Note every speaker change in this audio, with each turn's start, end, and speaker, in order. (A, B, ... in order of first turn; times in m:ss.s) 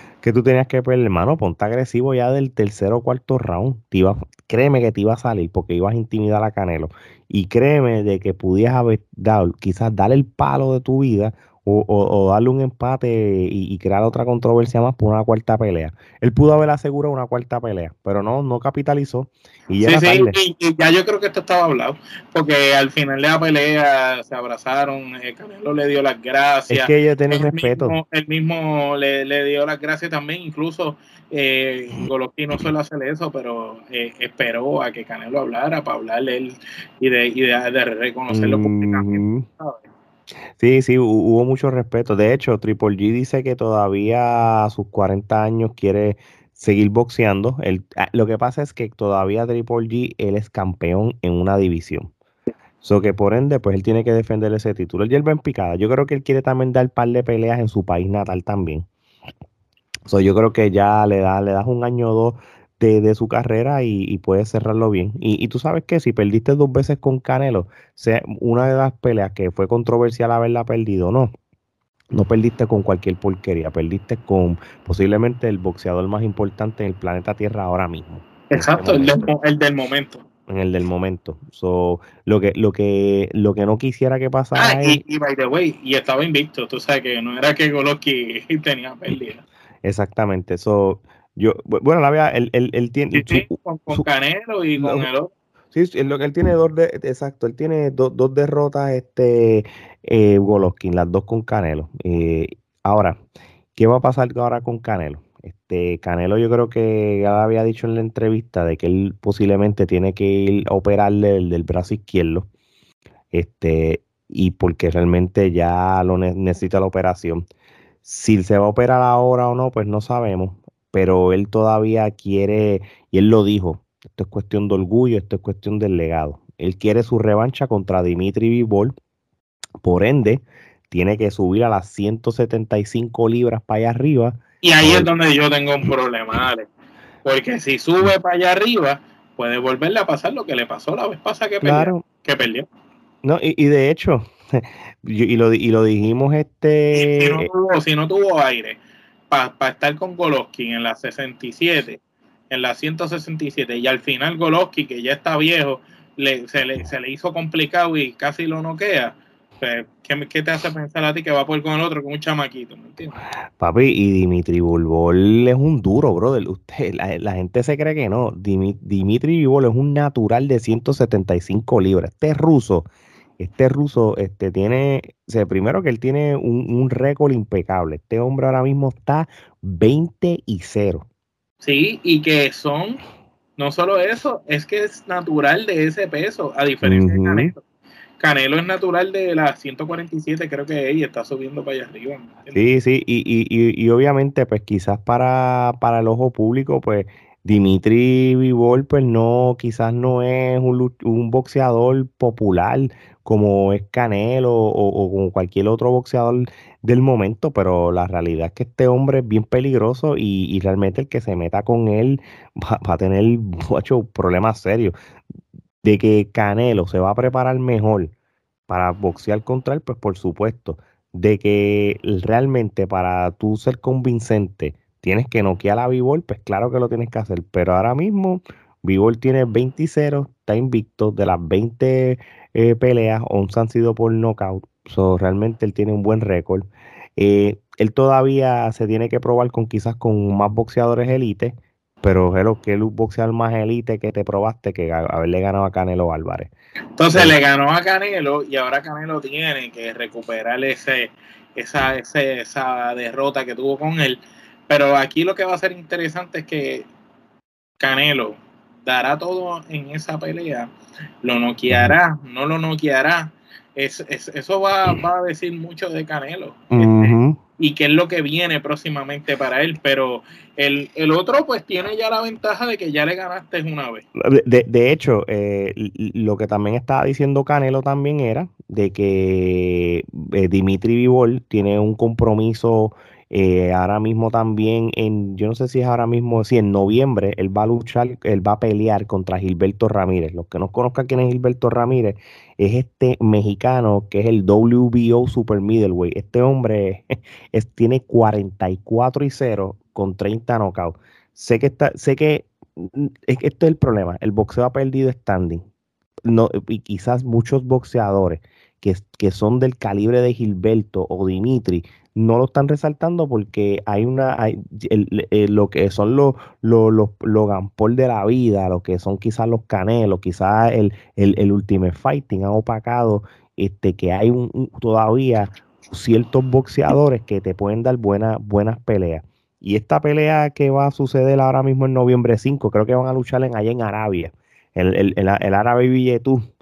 0:00.2-0:20.4 A
0:19.8-0:39.9 B
0:26.7-0:28.0 A
0:31.9-0:32.6 A
0:38.3-0:39.4 A
0:40.6-0:52.1 A
0:52.8-0:58.9 A
1:00.1-1:11.3 A
1:12.1-1:19.3 A
1:18.5-1:20.2 B
1:20.5-1:25.0 A
1:24.5-1:29.4 B
1:29.8-1:34.1 A
1:33.1-1:35.3 B
1:34.8-1:35.1 A
1:35.7-1:43.2 A
1:43.8-1:52.5 A
1:53.3-1:57.4 A
1:58.0-2:09.0 A
2:09.8-2:15.1 A
2:14.6-2:16.7 B
2:17.2-2:22.7 B
2:21.6-2:22.0 A
2:23.2-2:27.5 A
2:26.9-2:28.8 B
2:29.3-2:43.2 B
2:43.6-2:52.9 A
2:53.4-3:01.0 A
3:01.6-3:03.0 B
3:03.6-3:07.6 B
3:06.8-3:07.5 A
3:08.2-3:12.6 B
3:12.5-3:34.9 A
3:35.8-3:38.2 A
3:38.7-3:56.7 A
3:57.2-4:06.5 A
4:07.0-4:16.9 B
4:07.1-4:07.4 A
4:17.8-4:20.7 B
4:21.2-4:34.1 B
4:21.7-4:22.0 A
4:26.7-4:27.4 A
4:34.2-5:05.6 A
5:06.3-5:36.4 A